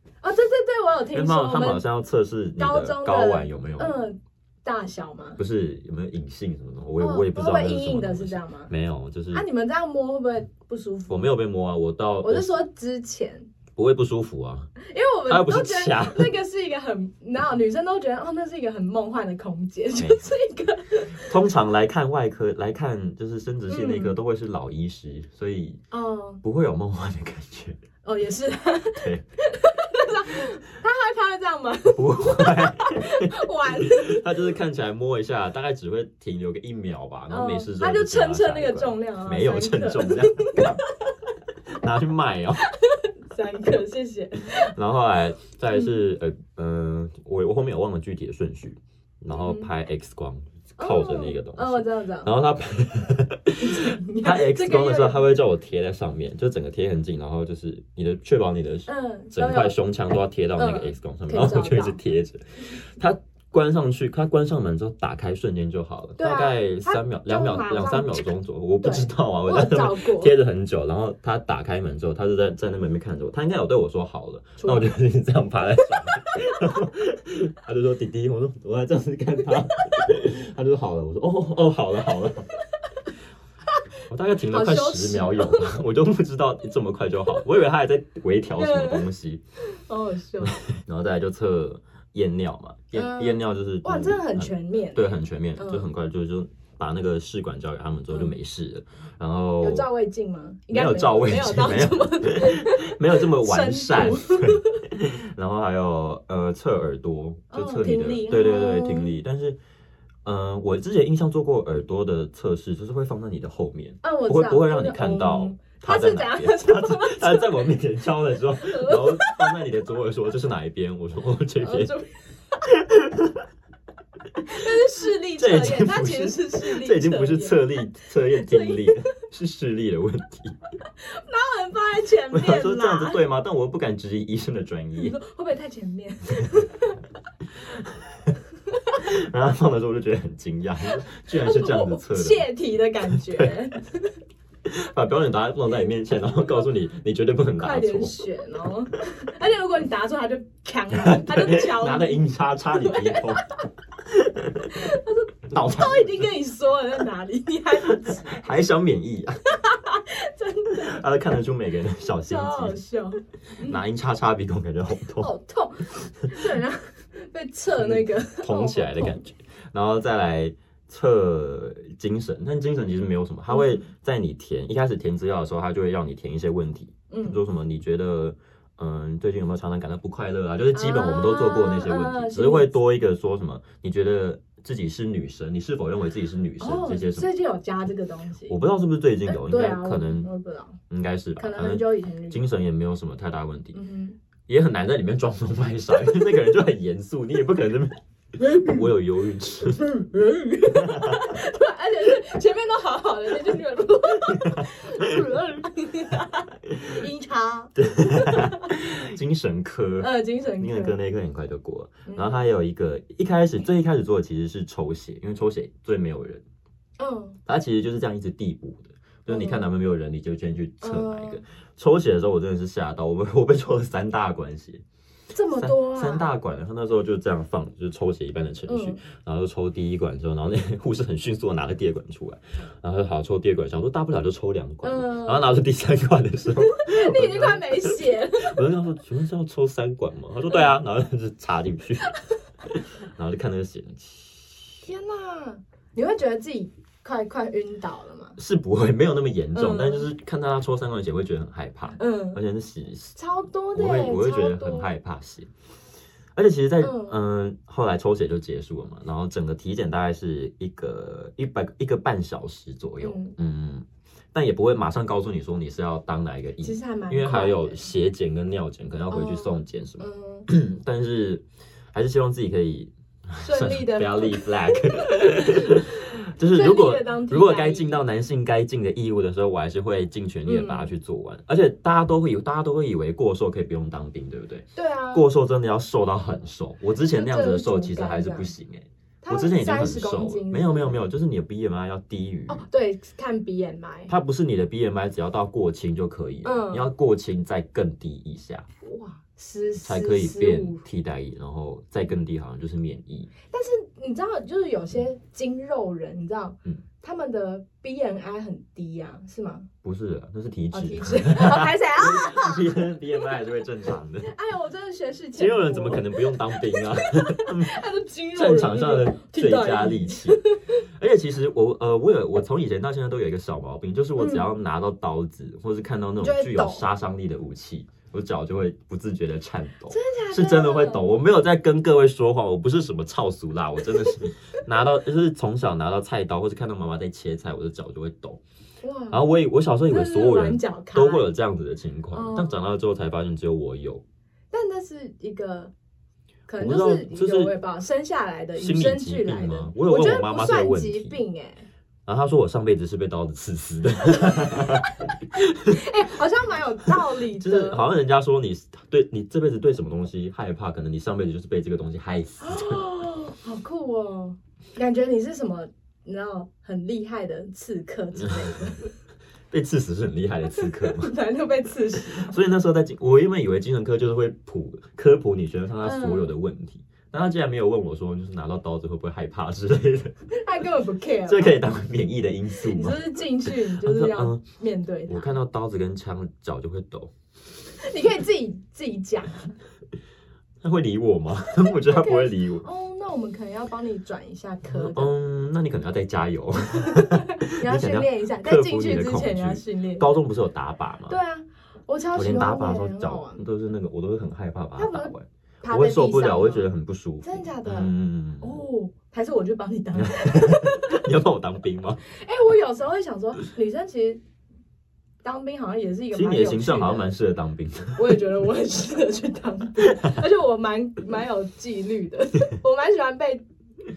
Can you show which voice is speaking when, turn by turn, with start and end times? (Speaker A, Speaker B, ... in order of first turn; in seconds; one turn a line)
Speaker A: 0.2-1.8
Speaker B: 1.1-4.1
Speaker A: 2.6-5.4
Speaker B: 5.4-9.5
Speaker A: 7.0-8.7
Speaker A: 9.3-11.3
Speaker B: 11.1-12.6
Speaker A: 12.2-13.5
Speaker B: 13.8-14.7
Speaker A: 14.8-21.3
Speaker B: 15.3-16.4
Speaker B: 21.3-25.8
Speaker A: 23.7-24.2
Speaker A: 25.9-26.4
Speaker B: 26.4-27.8
Speaker A: 28.0-34.2
Speaker B: 29.0-29.2
Speaker B: 31.9-40.8
Speaker A: 37.3-40.7
Speaker B: 41.8-42.6
Speaker A: 43.0-44.7
Speaker B: 44.4-82.5
Speaker A: 45.7-46.1
Speaker A: 49.3-49.7
Speaker A: 50.8-52.3
Speaker A: 53.6-55.3
Speaker A: 58.9-59.8
Speaker A: 60.6-62.0
Speaker A: 66.2-70.3
Speaker A: 74.6-74.9
Speaker B: 84.1-89.4
Speaker A: 84.5-85.7
Speaker A: 88.6-89.1
Speaker A: 89.8-90.6
Speaker B: 90.5-99.9
Speaker A: 92.9-95.9
Speaker A: 98.1-98.4
Speaker A: 99.6-104.8
Speaker B: 100.7-109.6
Speaker A: 107.5-109.2
Speaker B: 110.2-121.9
Speaker A: 114.0-117.7
Speaker A: 118.7-119.6
Speaker A: 121.6-122.1
Speaker B: 122.7-123.4
Speaker A: 124.5-127.7
Speaker B: 125.4-130.6
Speaker A: 128.4-129.0
Speaker A: 131.1-133.2
Speaker B: 132.3-135.2
Speaker A: 135.0-137.0
Speaker B: 137.6-138.3
Speaker B: 139.0-142.5
Speaker A: 140.9-144.1
Speaker B: 143.1-143.6
Speaker B: 144.7-148.2
Speaker A: 147.6-153.6
Speaker B: 150.9-153.4
Speaker B: 154.1-154.8
Speaker A: 154.8-158.4
Speaker B: 155.5-156.3
Speaker B: 157.8-159.4
Speaker A: 159.6-161.0
Speaker B: 160.7-162.8
Speaker A: 162.2-163.8
Speaker B: 163.7-165.3
Speaker A: 165.2-169.1
Speaker B: 167.7-187.3
Speaker A: 173.5-173.8
Speaker A: 177.1-177.4
Speaker A: 180.7-182.7
Speaker A: 186.6-188.6
Speaker B: 188.5-190.3
Speaker A: 189.2-190.8
Speaker B: 190.9-193.8
Speaker A: 191.4-192.4
Speaker A: 193.7-194.2
Speaker B: 194.5-199.9
Speaker A: 198.5-198.8
Speaker A: 199.8-208.7
Speaker B: 200.7-201.2
Speaker B: 204.3-204.7
Speaker B: 206.7-207.0
Speaker B: 207.8-216.4
Speaker A: 210.0-211.0
Speaker A: 212.1-212.5
Speaker A: 217.0-217.4
Speaker B: 217.5-224.8
Speaker A: 219.3-219.7
Speaker A: 220.8-221.4
Speaker A: 225.3-226.3
Speaker B: 225.6-242.1
Speaker A: 228.7-229.0
Speaker A: 234.8-235.6
Speaker A: 236.6-238.6
Speaker B: 242.7-244.7
Speaker A: 244.8-248.4
Speaker B: 248.4-253.2
Speaker A: 249.5-250.1
Speaker A: 252.0-252.4
Speaker A: 253.2-254.9
Speaker B: 253.7-255.5
Speaker B: 256.4-292.6
Speaker A: 256.8-257.2
Speaker A: 263.0-263.4
Speaker A: 266.6-267.8
Speaker A: 269.1-270.5
Speaker A: 273.4-275.9
Speaker A: 276.5-278.1
Speaker A: 280.4-280.9
Speaker A: 284.8-285.3
Speaker A: 287.1-288.5
Speaker A: 289.2-291.0
Speaker A: 292.5-294.1
Speaker B: 294.1-298.7
Speaker A: 296.4-296.9
Speaker A: 298.8-300.8
Speaker B: 299.8-303.3
Speaker A: 303.5-309.7
Speaker B: 309.8-314.3
Speaker A: 310.7-312.9
Speaker A: 314.2-320.6
Speaker B: 315.4-317.7
Speaker B: 318.4-320.4
Speaker B: 321.0-338.4
Speaker A: 324.2-324.5
Speaker A: 326.2-326.9
Speaker A: 329.9-331.1
Speaker A: 338.8-339.3
Speaker B: 339.1-344.0
Speaker A: 339.9-341.3
Speaker A: 342.1-342.6
Speaker A: 344.5-345.7
Speaker A: 346.5-351.7
Speaker B: 346.6-347.5
Speaker B: 348.6-351.2
Speaker B: 352.1-354.9
Speaker A: 355.4-357.8
Speaker B: 357.3-362.8
Speaker A: 362.4-368.9
Speaker B: 368.2-368.6
Speaker B: 369.5-371.1
Speaker A: 370.5-372.3
Speaker B: 372.1-380.1
Speaker A: 375.8-376.3
Speaker A: 380.3-381.6
Speaker B: 381.3-384.4
Speaker A: 382.6-385.3
Speaker B: 385.1-387.1
Speaker A: 387.8-389.5
Speaker B: 390.6-392.7
Speaker A: 391.8-395.1
Speaker B: 394.7-401.2
Speaker A: 396.8-400.1
Speaker A: 401.1-403.4
Speaker B: 402.1-408.6
Speaker A: 404.8-406.7
Speaker A: 407.2-411.0
Speaker B: 409.9-412.0
Speaker A: 412.2-414.2
Speaker A: 415.2-417.1
Speaker B: 416.1-418.2
Speaker A: 418.0-423.4
Speaker B: 419.8-420.2